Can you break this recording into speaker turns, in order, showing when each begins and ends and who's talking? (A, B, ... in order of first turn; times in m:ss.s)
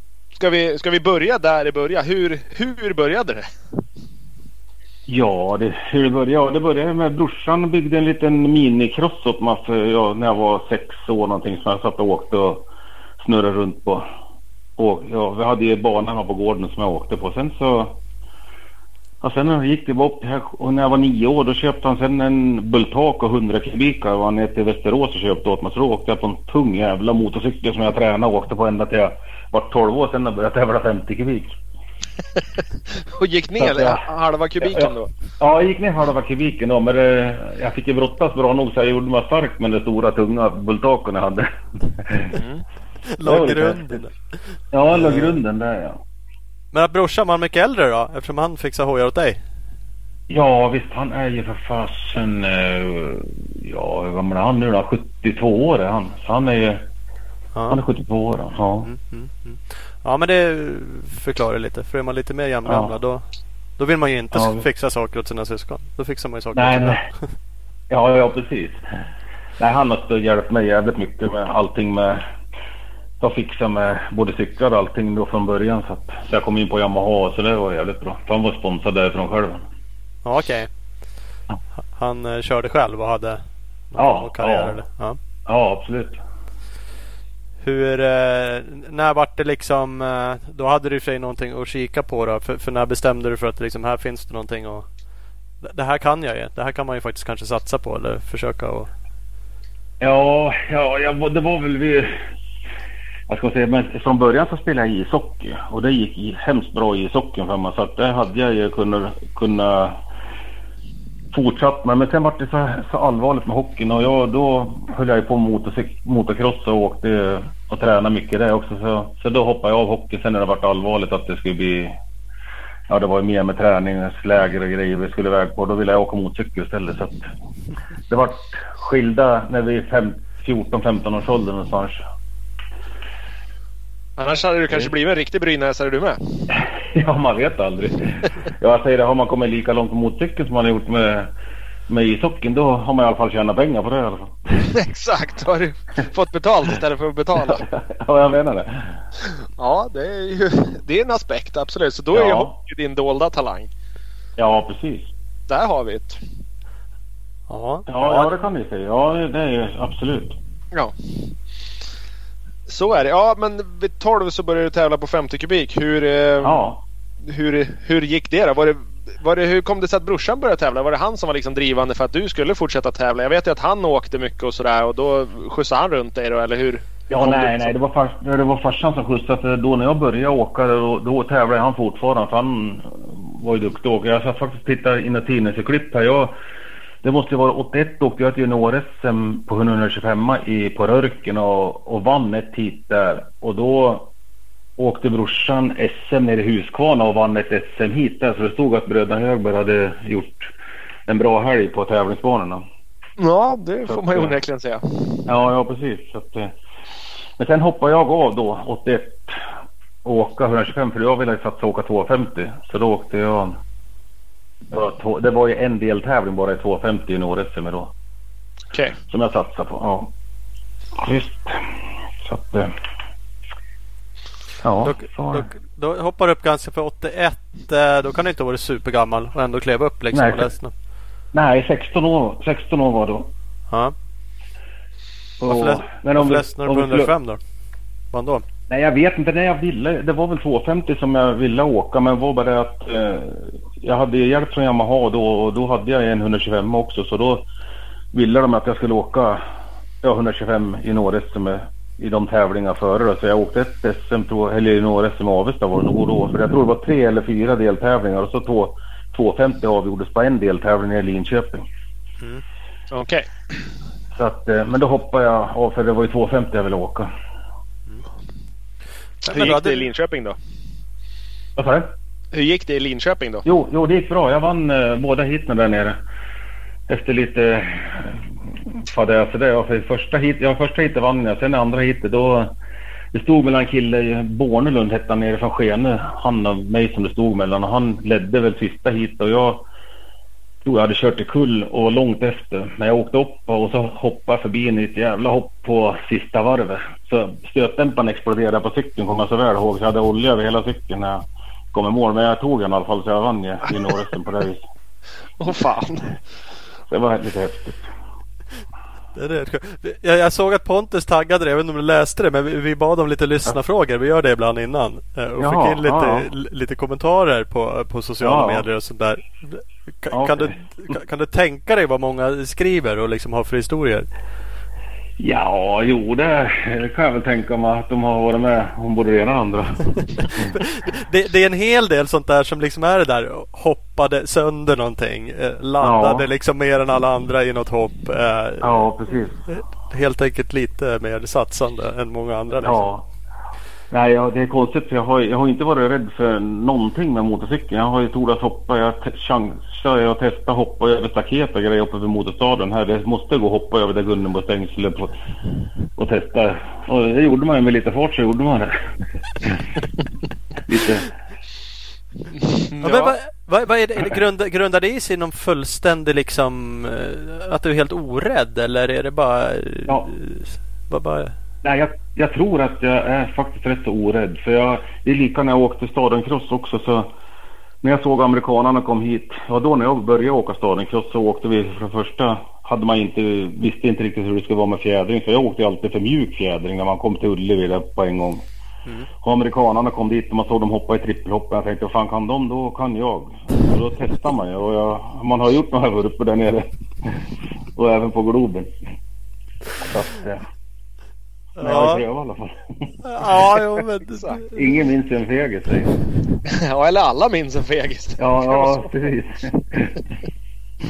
0:00.4-0:03.5 A
0:05.1-0:12.6 B
0:13.2-0:14.0 B
0:14.8-0:18.0 B
0:19.2-0:31.5 B
0:32.9-0:35.1 A
0:33.6-0:34.0 B
0:34.6-0:42.4 B
0:42.3-0:42.6 A
0:43.1-0:44.1 C
0:43.2-0:44.0 B
0:44.7-0:46.0 B
0:44.9-0:45.4 C
0:46.7-0:49.4 C
0:50.3-0:56.8 B
0:57.5-0:57.8 C
0:57.7-0:58.9 B
0:58.8-1:03.2 C
1:02.6-1:02.9 B
1:03.8-1:07.2 C
1:04.3-1:04.6 B
1:06.5-1:07.0 B
1:07.9-1:08.8 B
1:09.6-1:12.2 B
1:13.2-1:19.6 B
1:20.2-1:20.7 C
1:21.9-1:25.2 C
1:24.0-1:24.8 B
1:25.4-1:26.2 B
1:27.6-1:34.9 C
1:35.6-1:38.9 C
1:40.0-1:42.2 B
1:43.3-1:50.0 B
1:51.3-2:01.9 B
2:02.9-2:07.2 B
2:08.1-2:12.0 B
2:14.2-2:16.5 A
2:16.8-2:21.3 B
2:21.9-2:24.4 B
2:24.6-2:27.6 A
2:27.4-2:29.0 B
2:29.6-2:33.7 A
2:32.1-2:32.5 B
2:34.4-2:35.1 B
2:35.5-2:36.2 A
2:37.5-2:38.3 C
2:37.9-2:40.4 B
2:40.7-2:41.3 A
2:42.7-2:46.7 A
2:46.4-2:46.8 B
2:47.2-2:57.7 A
2:57.1-3:06.3 B
3:07.0-3:14.1 B
3:14.8-3:20.5 B
3:21.1-3:22.6 B
3:23.2-3:25.3 A
3:23.9-3:24.3 B
3:25.2-3:26.5 B
3:27.4-3:29.4 B
3:30.0-3:33.6 B
3:34.7-3:37.9 B
3:38.7-3:39.0 A
3:39.1-3:40.1 B
3:41.0-3:42.7 B
3:44.6-3:45.5 B
3:44.8-3:50.7 C
3:50.1-3:50.4 B
3:51.3-3:53.3 B
3:55.4-3:57.1 B
3:55.4-3:57.4 C
3:58.1-3:58.4 C
3:58.7-4:07.5 B
4:08.1-4:09.4 B
4:10.0-4:21.6 B
4:22.9-4:23.3 A
4:24.1-4:27.1 B
4:29.2-4:29.9 C
4:29.3-4:30.4 A
4:31.6-4:31.9 B
4:32.3-4:33.4 A
4:33.4-4:36.0 B
4:36.9-4:42.5 B
4:43.1-4:49.6 B
4:50.6-5:04.6 B
5:05.4-5:06.2 A
5:06.9-5:07.9 B
5:09.1-5:24.1 C
5:15.4-5:16.3 B
5:18.2-5:18.7 B
5:20.1-5:20.5 B
5:25.2-5:29.8 B
5:30.2-5:38.8 C
5:35.8-5:36.3 B
5:38.6-5:39.4 B
5:39.5-5:42.8 C
5:42.6-5:43.1 B
5:43.9-5:55.1 B
5:56.0-5:58.7 B
5:59.4-5:59.8 B
6:00.6-6:01.1 B
6:02.3-6:03.1 A
6:02.8-6:11.3 C
6:11.6-6:17.1 B
6:17.8-6:28.4 B
6:29.2-6:38.7 B
6:39.8-6:40.4 B
6:41.6-6:42.0 C
6:41.6-6:43.6 B
6:43.0-6:44.6 C
6:44.1-6:44.4 A
6:44.5-6:45.9 B
6:46.5-6:48.9 A
6:48.2-6:50.0 B